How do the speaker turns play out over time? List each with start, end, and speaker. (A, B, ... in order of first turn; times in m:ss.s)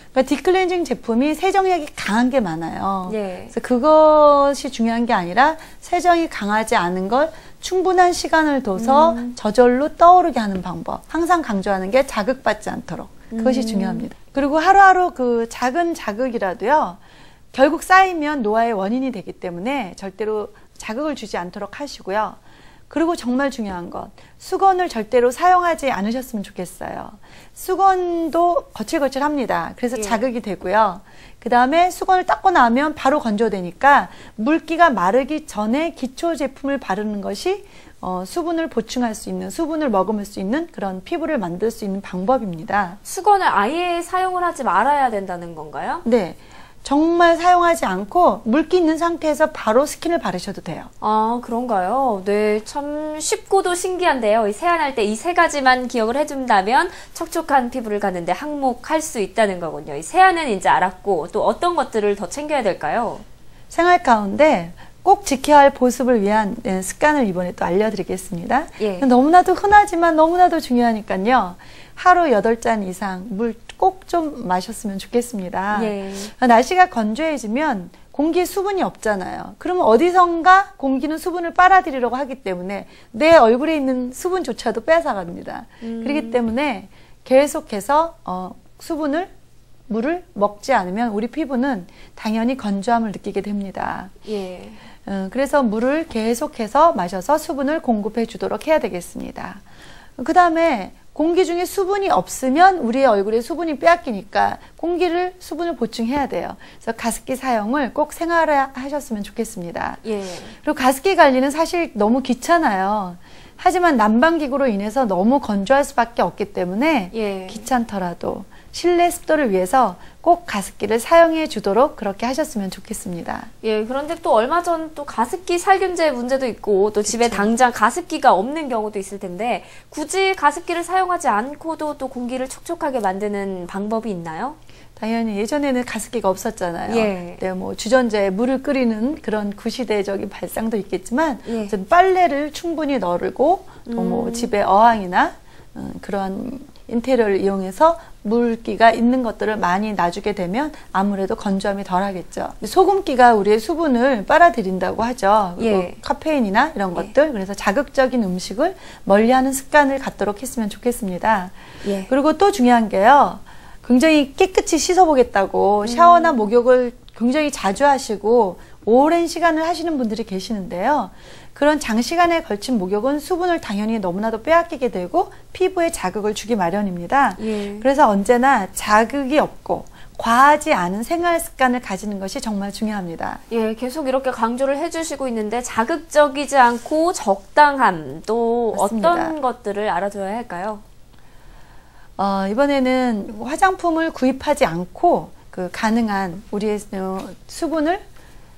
0:00.1-0:17.0 A
0:03.0-0:03.5 B
0:08.7-0:09.4 B
0:13.3-0:14.1 B
0:17.5-0:22.4 A
0:22.9-0:43.0 A
0:29.9-0:30.2 B
0:43.0-0:46.0 B
0:46.0-0:50.9 A
0:51.0-1:03.2 B
1:03.7-1:29.3 A
1:08.8-1:09.1 B
1:15.7-1:16.3 B
1:25.8-1:26.4 B
1:29.9-1:34.1 A
1:34.2-1:34.8 B
1:35.0-1:39.6 A
1:40.2-1:50.0 A
1:50.0-1:50.5 B
1:50.6-2:03.5 A
1:57.1-1:57.7 B
2:03.6-2:14.6 B
2:07.0-2:07.5 A
2:15.0-2:41.6 A
2:16.9-2:17.4 B
2:21.4-2:21.7 B
2:23.8-2:24.5 B
2:35.6-2:36.0 B
2:41.8-2:42.1 B
2:42.1-3:03.4 A
2:45.8-2:46.4 B
2:57.4-2:57.9 B
3:03.5-3:10.8 B
3:08.7-3:09.4 A
3:12.2-3:18.0 A